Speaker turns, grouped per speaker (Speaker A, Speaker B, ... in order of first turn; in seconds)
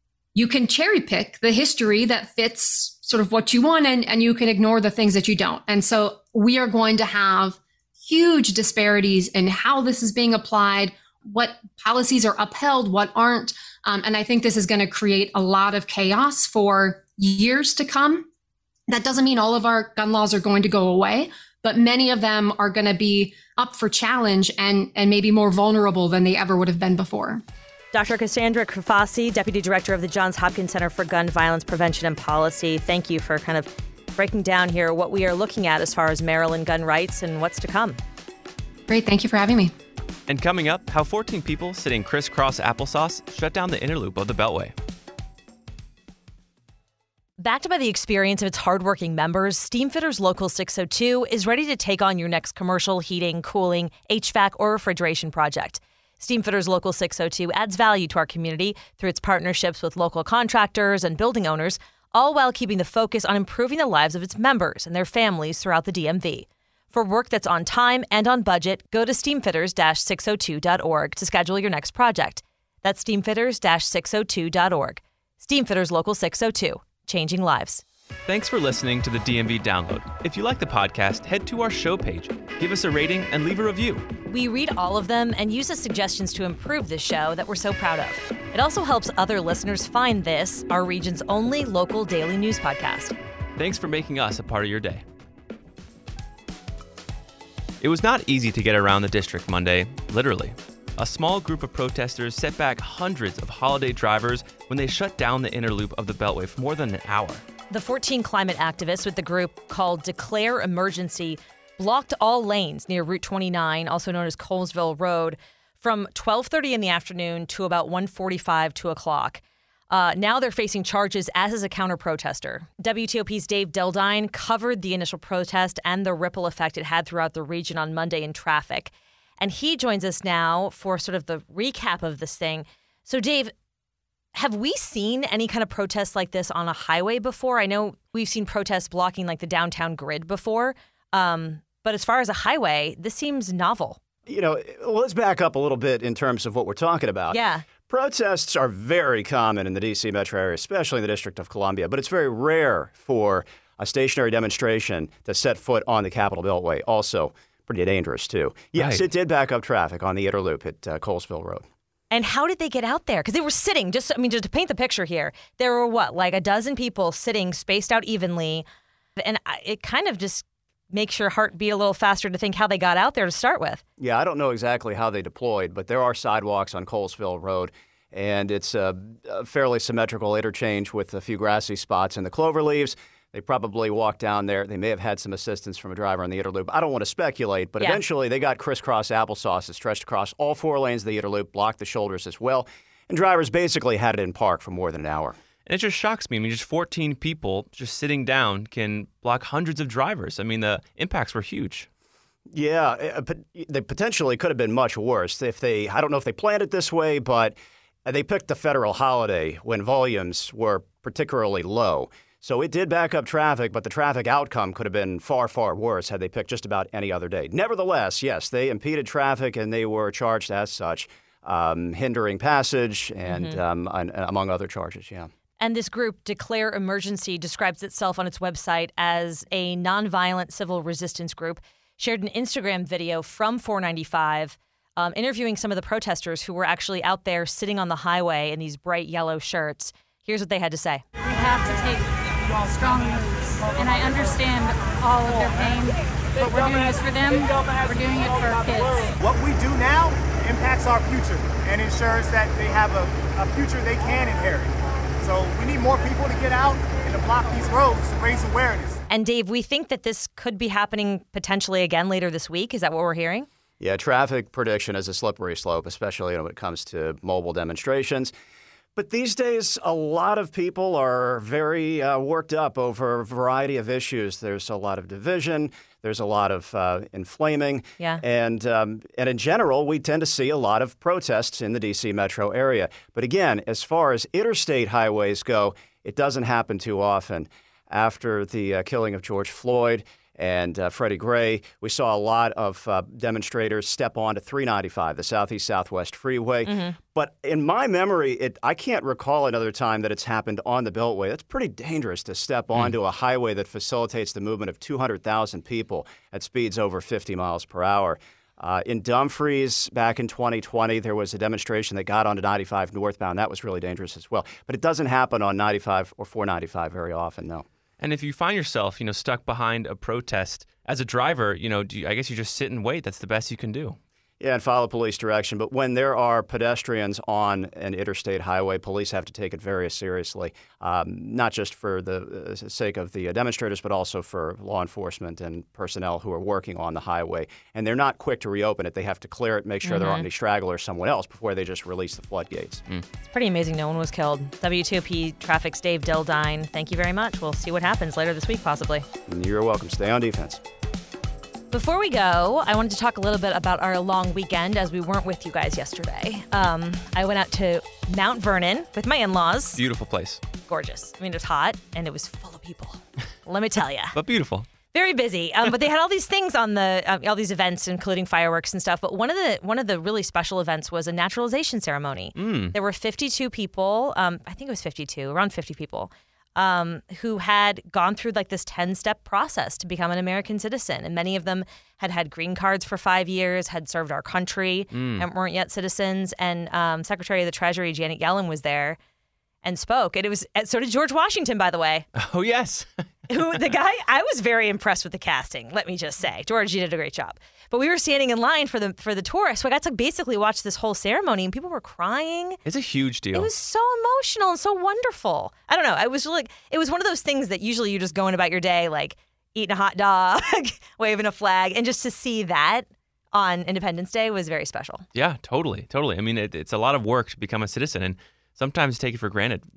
Speaker A: 0.3-18.3, 18.9-27.4, 38.9-39.7
Speaker B: 27.9-38.0, 47.4-77.8, 84.3-93.1, 107.7-133.5, 134.3-144.0, 147.3-147.7, 162.1-168.6, 169.2-173.8, 223.3-223.6, 225.6-241.0, 259.1-263.5, 296.6-297.0, 339.8-340.3, 343.2-349.0, 351.7-359.8, 360.7-364.1, 364.9-389.0, 389.6-392.1, 393.3-402.6, 403.3-415.1
Speaker C: 40.3-44.7, 78.3-84.0, 93.5-95.0, 97.8-107.4, 158.7-159.0, 195.7-201.9, 318.0-324.0, 359.7-360.4, 364.1-364.7, 372.4-372.7, 384.9-385.2, 392.1-393.0, 402.6-403.5, 415.1-419.7
Speaker D: 144.3-161.6, 174.0-195.3, 202.5-225.3, 263.8-268.3, 268.9-317.6, 324.4-342.8, 349.3-350.6
Speaker E: 241.3-241.7, 242.5-245.7, 246.4-246.9, 247.4-248.0, 248.5-259.0
Speaker F: 241.3-242.1, 242.6-249.1